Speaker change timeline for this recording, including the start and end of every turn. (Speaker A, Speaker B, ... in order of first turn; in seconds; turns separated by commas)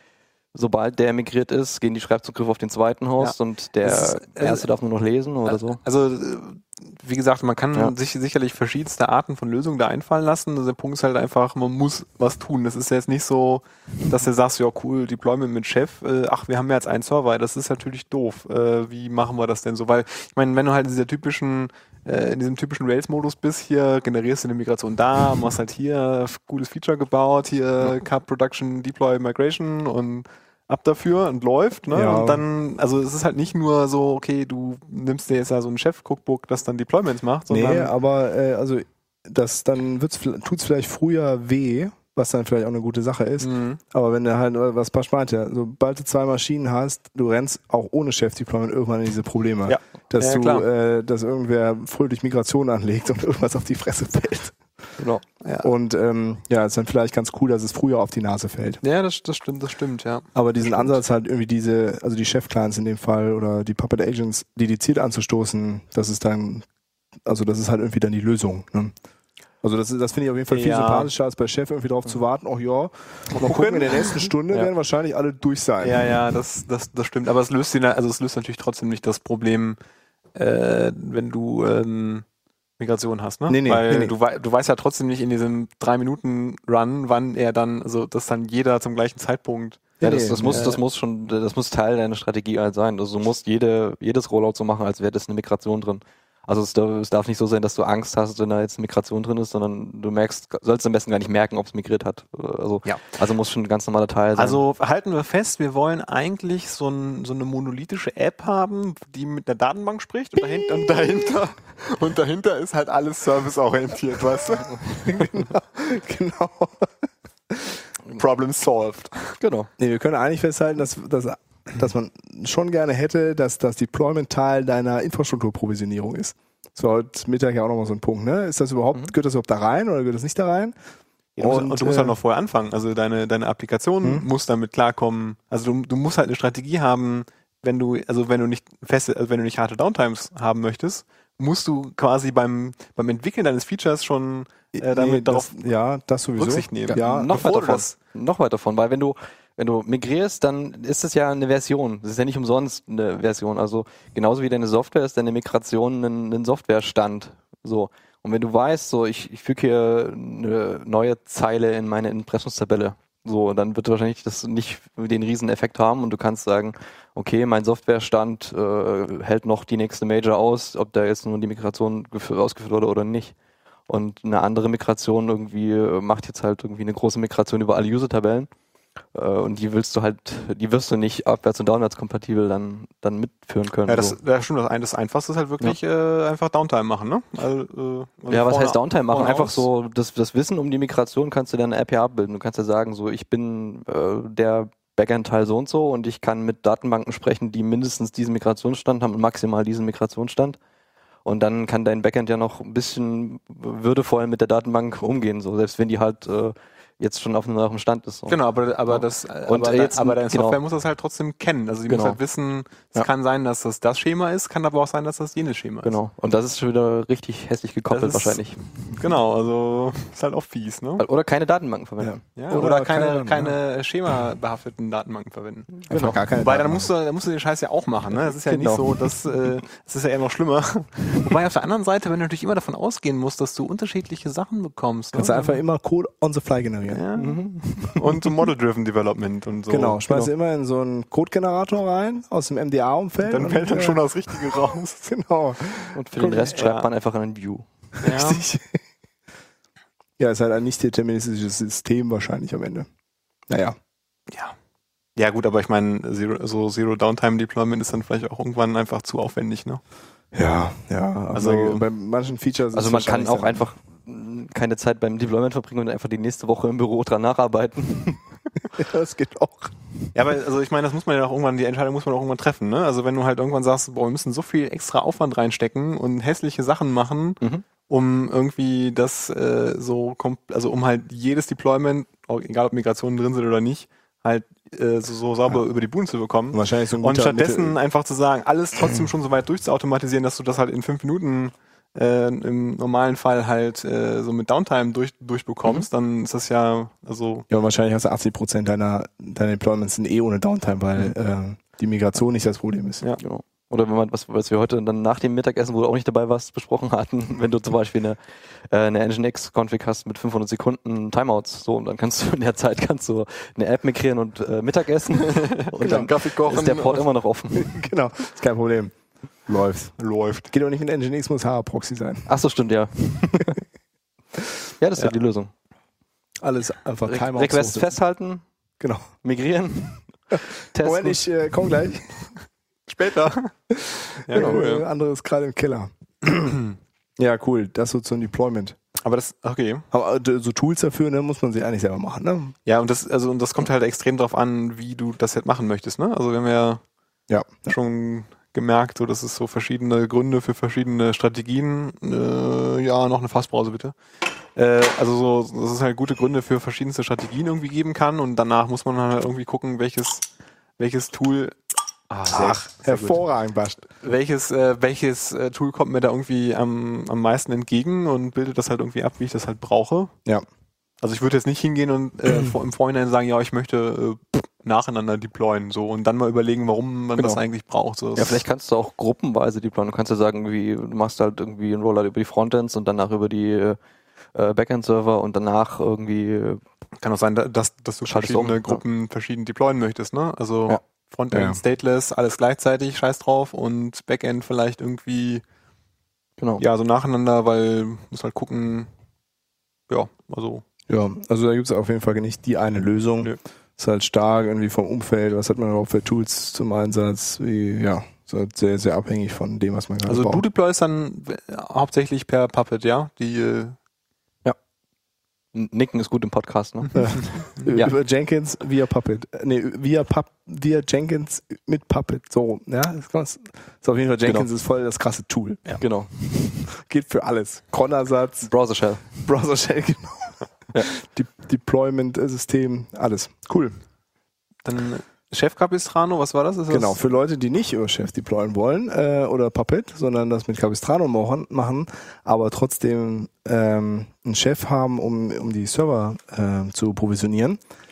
Speaker A: 0.5-5.8, Speaker B: 3.2-4.7, Speaker B: 5.5-37.9, Speaker C: 31.9-32.4, Speaker C: 37.5-54.6, Speaker B: 43.4-43.8, Speaker B: 49.7-50.7, Speaker B: 55.4-55.7, Speaker C: 55.6-58.8, Speaker B: 58.8-61.0, Speaker C: 60.4-66.7, Speaker C: 67.2-68.9, Speaker C: 69.6-76.1, Speaker B: 70.5-71.1, Speaker B: 73.3-74.3, Speaker B: 75.8-79.8, Speaker B: 80.3-82.2, Speaker B: 82.8-90.0, Speaker C: 83.5-84.2, Speaker C: 90.0-90.7, Speaker A: 90.0-104.6, Speaker B: 90.5-90.8, Speaker B: 104.4-115.4, Speaker C: 115.0-116.9, Speaker C: 117.5-117.8, Speaker B: 118.1-119.4, Speaker A: 119.4-119.7, Speaker C: 119.8-130.8, Speaker B: 131.4-145.6, Speaker C: 131.4-132.2, Speaker C: 144.7-147.5, Speaker B: 146.4-148.0, Speaker A: 146.9-173.3, Speaker A: 173.9-178.5, Speaker A: 179.1-184.2, Speaker B: 183.9-189.7, Speaker A: 188.3-200.6, Speaker A: 201.2-210.6, Speaker B: 208.3-216.0, Speaker A: 211.9-212.2, Speaker A: 215.8-218.6, Speaker B: 217.9-221.0, Speaker A: 221.0-222.2, Speaker C: 222.0-223.6, Speaker B: 222.4-235.6, Speaker C: 225.9-226.9, Speaker A: 225.9-226.2, Speaker A: 228.3-229.1, Speaker C: 235.1-237.0, Speaker B: 236.9-240.0, Speaker A: 237.2-238.0, Speaker C: 239.7-246.6, Speaker B: 243.2-245.1, Speaker A: 245.9-247.7, Speaker B: 246.4-246.9, Speaker B: 248.0-248.4, Speaker C: 248.0-248.8, Speaker C: 250.2-252.9, Speaker C: 253.5-253.8, Speaker B: 255.2-259.8, Speaker C: 260.3-263.6, Speaker B: 261.3-261.9, Speaker A: 262.7-268.2, Speaker C: 268.7-269.8, Speaker B: 270.1-297.5, Speaker C: 286.5-287.8, Speaker C: 297.5-303.0, Speaker A: 303.2-308.2, Speaker A: 308.7-317.7, Speaker B: 315.4-317.1, Speaker C: 315.8-316.1, Speaker C: 317.5-318.9, Speaker C: 319.5-320.0, Speaker B: 320.0-320.5, Speaker C: 320.5-322.3, Speaker A: 322.3-323.6, Speaker A: 324.8-325.5, Speaker C: 326.4-327.9, Speaker A: 327.1-328.4, Speaker C: 328.8-329.1, Speaker A: 329.2-331.2, Speaker C: 330.3-332.2, Speaker B: 332.9-333.5, Speaker B: 334.1-334.8, Speaker C: 334.3-336.6, Speaker A: 334.3-334.6, Speaker C: 337.2-338.8, Speaker B: 339.0-339.9, Speaker C: 339.9-342.6, Speaker B: 342.7-346.8, Speaker C: 347.3-347.7, Speaker B: 347.7-353.9, Speaker B: 354.6-360.3, Speaker B: 360.8-361.6, Speaker B: 362.1-363.2, Speaker C: 362.3-363.9, Speaker B: 364.0-370.1, Speaker B: 371.0-378.4, Speaker A: 378.2-383.8, Speaker A: 384.4-386.6, Speaker B: 387.0-395.4, Speaker A: 388.1-388.8, Speaker C: 391.3-391.6, Speaker A: 396.4-396.6, Speaker B: 396.6-398.9, Speaker B: 399.9-400.6, Speaker C: 400.9-410.4, Speaker B: 410.1-413.8, Speaker A: 415.5-417.9, Speaker C: 417.0-425.8, Speaker B: 417.0-417.7, Speaker A: 425.8-426.1, Speaker C: 426.3-428.5, Speaker A: 428.5-429.1, Speaker C: 429.1-433.8, Speaker B: 434.6-437.0, Speaker C: 436.7-447.6